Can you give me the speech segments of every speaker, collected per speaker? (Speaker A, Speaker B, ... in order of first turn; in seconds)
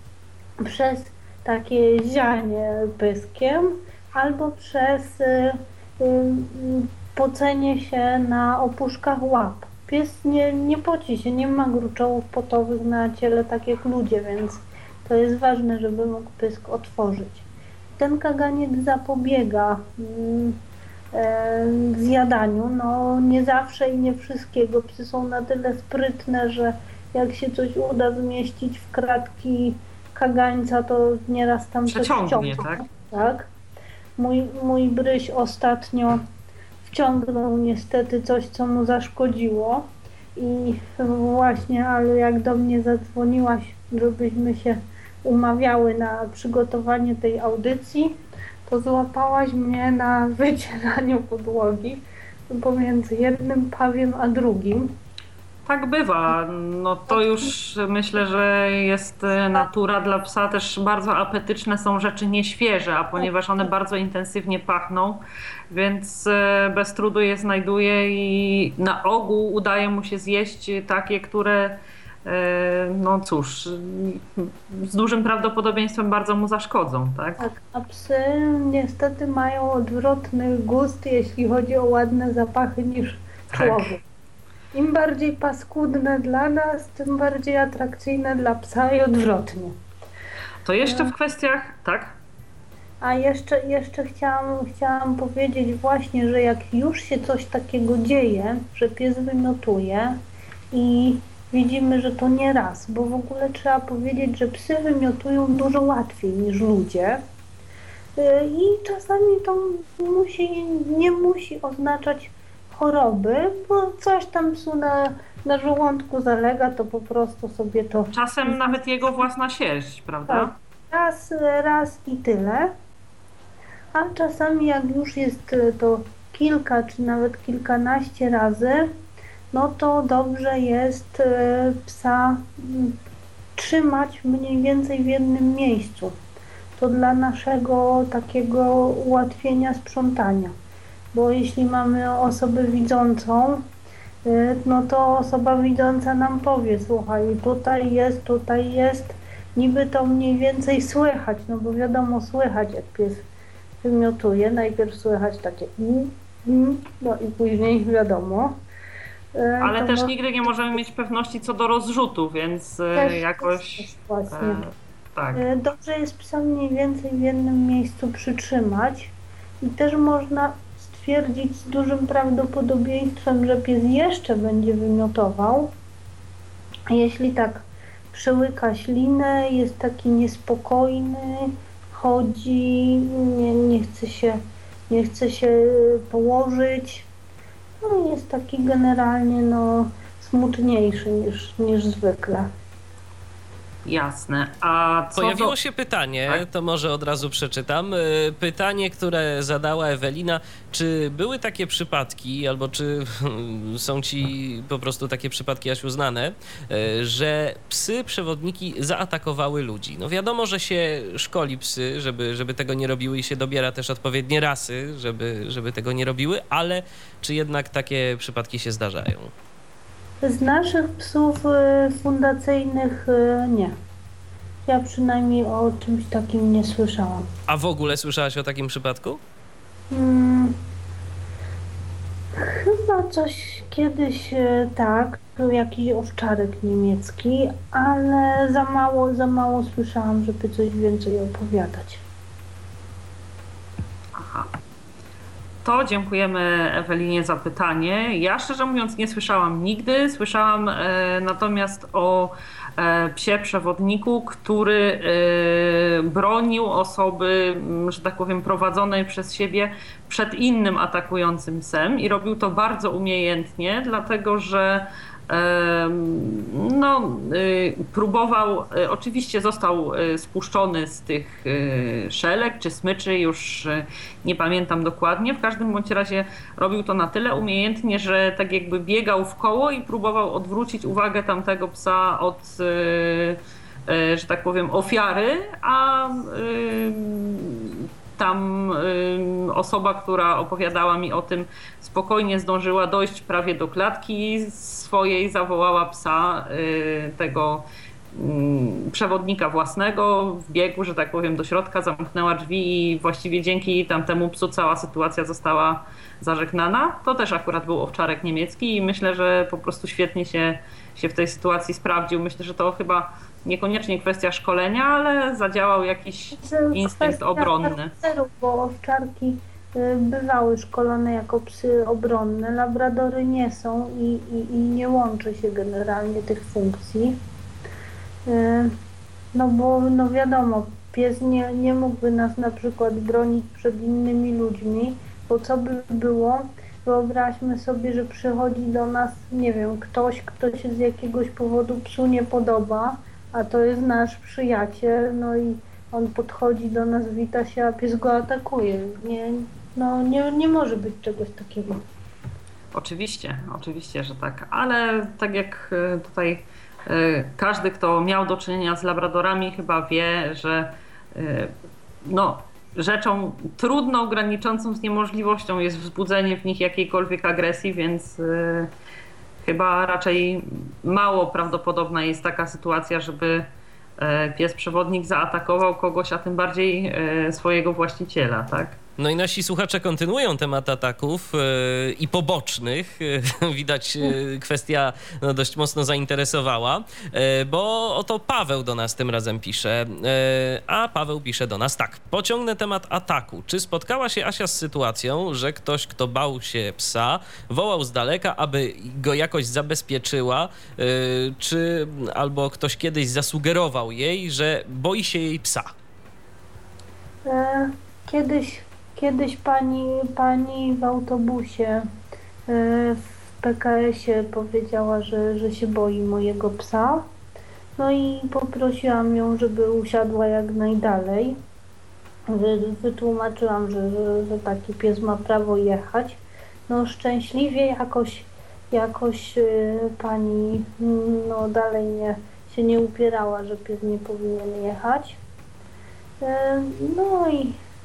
Speaker A: 0.6-17.4, 18.0-20.6, 21.1-33.5, 34.2-36.2, 36.8-48.1, 48.7-54.9, 57.1-57.5, 77.4-84.0, 84.7-89.7, 90.8-91.1, 93.0-100.2, 100.7-107.2, 108.2-119.2, 120.3-122.7, 123.9-128.9, 129.5-132.9, 133.6-136.2, 136.8-140.5, 141.1-143.6, 144.2-153.2, 153.8-158.6, 159.3-160.8, 162.9-164.6, 165.3-175.7, 176.9-187.1, 187.8-192.5, 220.2-223.8, 224.7-227.3, 229.9-230.6, 232.4-242.0, 316.4-327.2, 328.3-328.7, 329.3-351.8, 407.3-411.9, 412.5-417.1, 417.8-421.4, 422.3-435.2, 436.2-437.6
Speaker B: 31.9-32.8, 55.7-77.5, 83.5-83.9, 90.6-92.2, 118.1-120.5, 159.6-165.4, 193.8-195.6, 244.1-244.5, 245.6-317.9, 352.7-361.5, 362.0-368.7, 369.4-378.8
Speaker C: 195.2-219.3, 227.5-229.2, 379.0-405.7